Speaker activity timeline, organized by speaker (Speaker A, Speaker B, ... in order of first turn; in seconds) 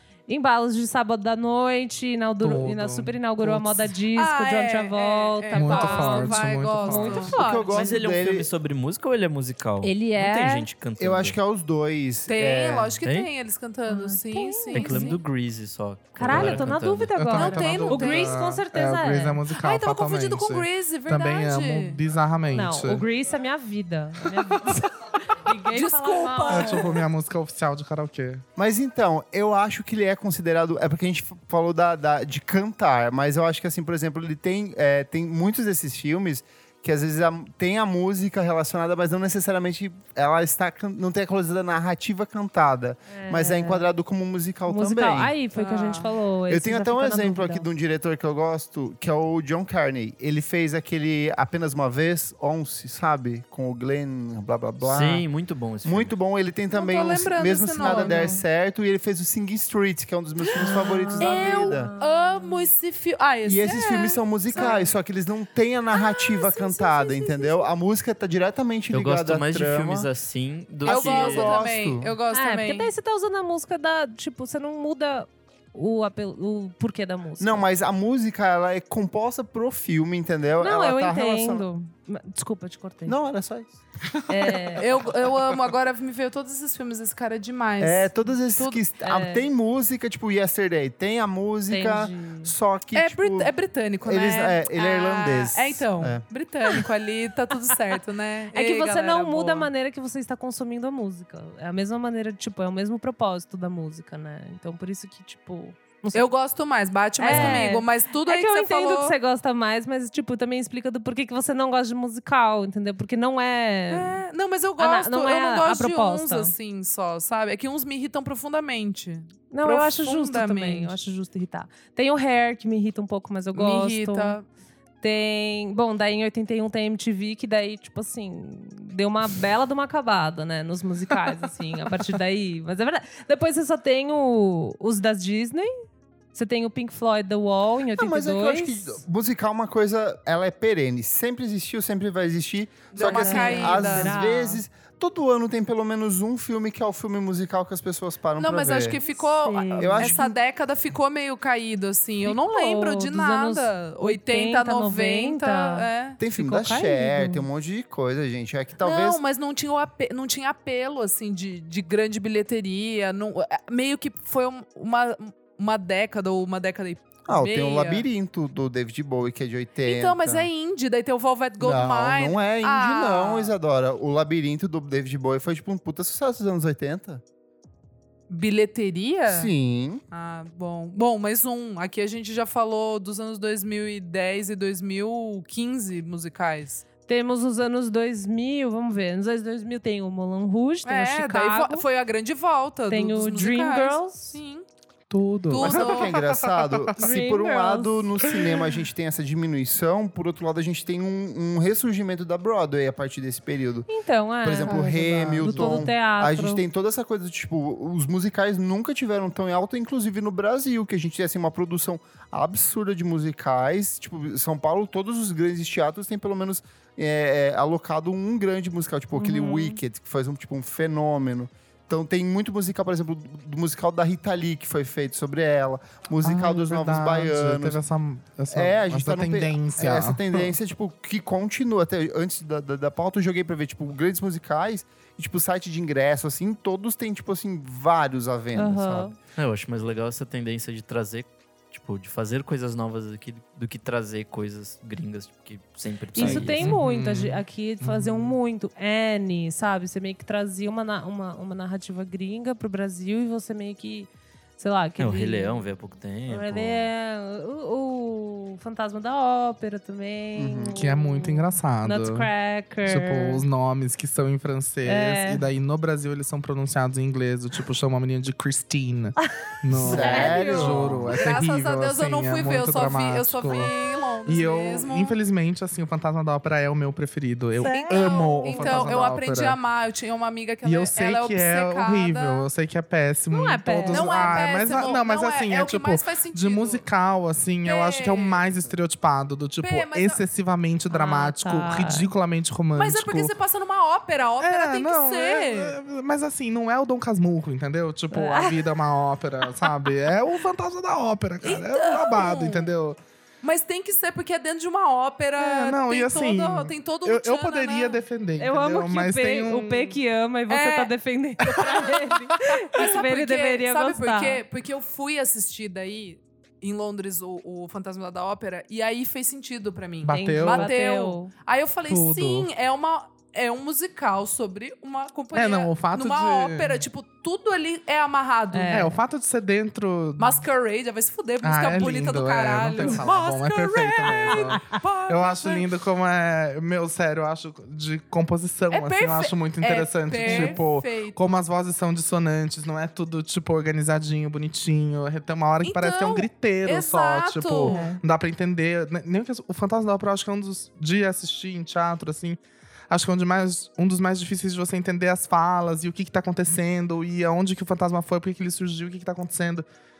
Speaker A: 0.3-7.7, 9.8-10.7, 13.9-15.2, 16.1-19.4, 22.5-26.9, 43.1-43.9, 44.7-47.7, 57.8-58.4, 60.5-62.7, 64.5-64.9, 72.3-77.6, 80.6-83.2, 84.3-84.8, 89.0-89.4, 91.7-92.5, 98.5-106.3, 107.2-114.2, 114.8-116.5, 119.5-124.4, 125.0-135.8, 136.3-139.0, 142.9-144.6, 149.0-150.2, 152.2-157.4, 187.1-191.8, 192.9-194.4, 197.0-198.1, 203.9-206.6, 219.1-219.8, 238.5-239.1, 246.1-255.7, 256.3-263.4, 264.8-265.4, 269.2-270.8, 277.6-279.0, 283.3-284.4, 290.9-292.1, 298.1-298.7, 308.4-314.4, 320.1-321.3, 328.5-329.0, 334.0-334.8, 340.2-340.6, 347.6-348.0
Speaker B: 2.4-3.9, 5.5-7.4, 16.2-23.0, 26.5-28.4, 195.1-196.9, 198.2-198.6, 205.2-205.8, 226.2-230.5, 246.2-248.4, 260.7-262.3, 262.8-273.7, 274.2-279.6, 280.6-293.3, 294.4-303.0, 305.4-309.9, 320.0-320.7, 321.9-322.5, 325.3-326.8, 328.7-330.4, 331.4-352.4, 352.9-359.6
Speaker C: 4.1-7.9, 12.3-15.2, 17.3-18.3, 19.6-22.0, 25.7-27.0, 45.5-46.1, 56.7-58.4, 60.5-64.8, 65.9-67.7, 70.8-72.9, 84.8-88.8, 92.9-99.7, 106.1-109.2, 113.9-121.0, 123.5-124.5, 142.9-144.2, 148.4-156.2, 158.8-168.0, 169.8-173.5, 178.3-179.5, 180.1-186.8, 190.8-194.6, 195.5-196.2, 271.1-275.2, 277.6-282.4, 283.9-286.8, 287.6-288.4, 289.6-290.2, 292.7-295.8, 301.4-302.7, 303.4-308.0, 310.5-310.9, 311.4-328.9, 330.2-335.7, 338.7-341.2, 345.6-347.8
Speaker D: 7.3-8.5, 11.0-13.0, 28.6-45.3, 46.5-55.2, 55.8-61.9, 63.4-70.1, 70.8-72.1, 77.4-81.7, 83.0-83.7, 87.8-96.2, 107.3-107.6, 137.9-149.0, 149.8-150.3, 156.2-159.2, 167.3-170.5, 171.6-177.2, 179.3-180.0, 195.6-203.9, 204.4-227.8, 228.5-239.1, 260.4-260.8, 269.7-271.3
Speaker E: 7.7-11.4, 13.0-13.3, 14.7-17.2, 54.8-56.1, 68.9-71.6, 239.3-246.8, 255.0-256.9